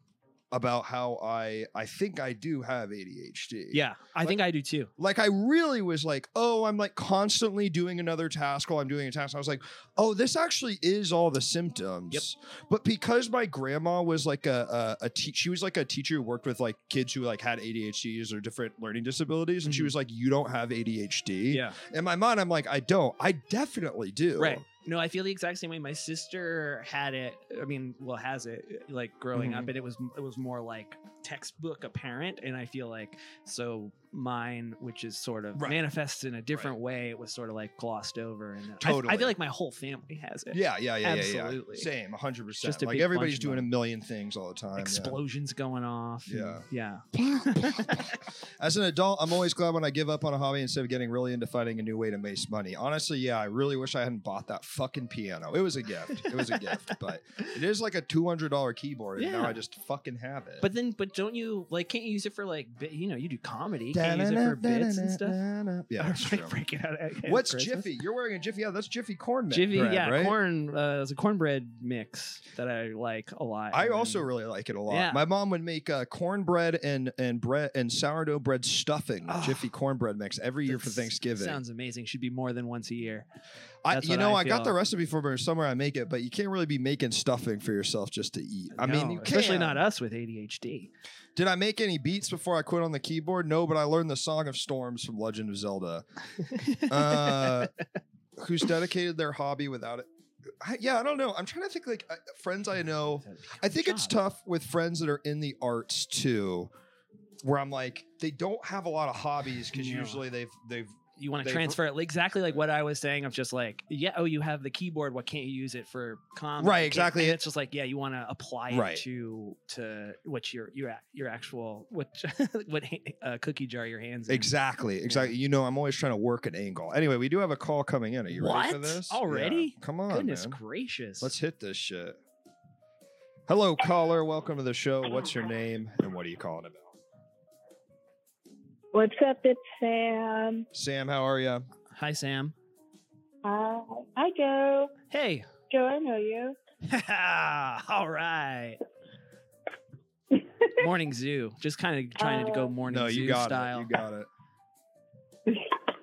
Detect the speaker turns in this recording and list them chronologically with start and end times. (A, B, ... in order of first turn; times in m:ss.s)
0:00.5-0:04.4 A
0:03.7-0:04.9 B
0:05.0-0:24.6 A
0:19.6-0:19.9 B
0:21.5-0:21.8 B
0:24.4-0:41.9 B
0:29.3-0:29.7 A
0:38.8-0:39.4 A
0:40.5-0:45.2 A
0:42.6-0:43.7 B
0:44.8-0:48.2 B
0:46.3-1:00.6 A
0:56.1-0:56.8 B
0:59.2-0:59.6 B
1:00.6-1:05.4 B
1:03.9-1:06.5 A
1:06.0-1:07.9 B
1:07.2-1:10.4 A
1:09.5-1:14.2 B
1:13.7-1:21.6 A
1:14.9-1:15.2 B
1:19.3-1:19.7 B
1:20.6-1:23.3 B
1:23.8-1:29.8 A
1:23.9-1:24.8 B
1:28.7-1:30.9 B
1:31.4-1:36.0 A
1:36.4-1:37.7 B
1:36.8-1:37.7 A
1:38.4-1:40.1 A
1:40.6-1:46.7 A
1:43.0-1:44.2 B
1:47.4-1:51.8 A
1:49.7-1:50.2 B
1:51.2-2:04.5 B
1:56.6-1:57.4 A
1:58.7-1:59.0 A
2:04.3-2:10.6 A
2:05.0-2:05.3 B
2:08.3-2:11.4 B
2:11.2-2:12.2 A
2:13.5-2:16.9 A
2:18.9-2:20.7 C
2:20.7-2:21.6 A
2:21.9-2:22.5 B
2:23.4-2:24.9 C
2:25.1-2:25.5 B
2:25.7-2:26.6 C
2:26.8-2:28.8 B
2:30.3-2:30.7 C
2:30.8-2:33.9 B
2:32.2-2:32.7 C
2:32.9-2:34.3 A
2:35.5-2:35.9 C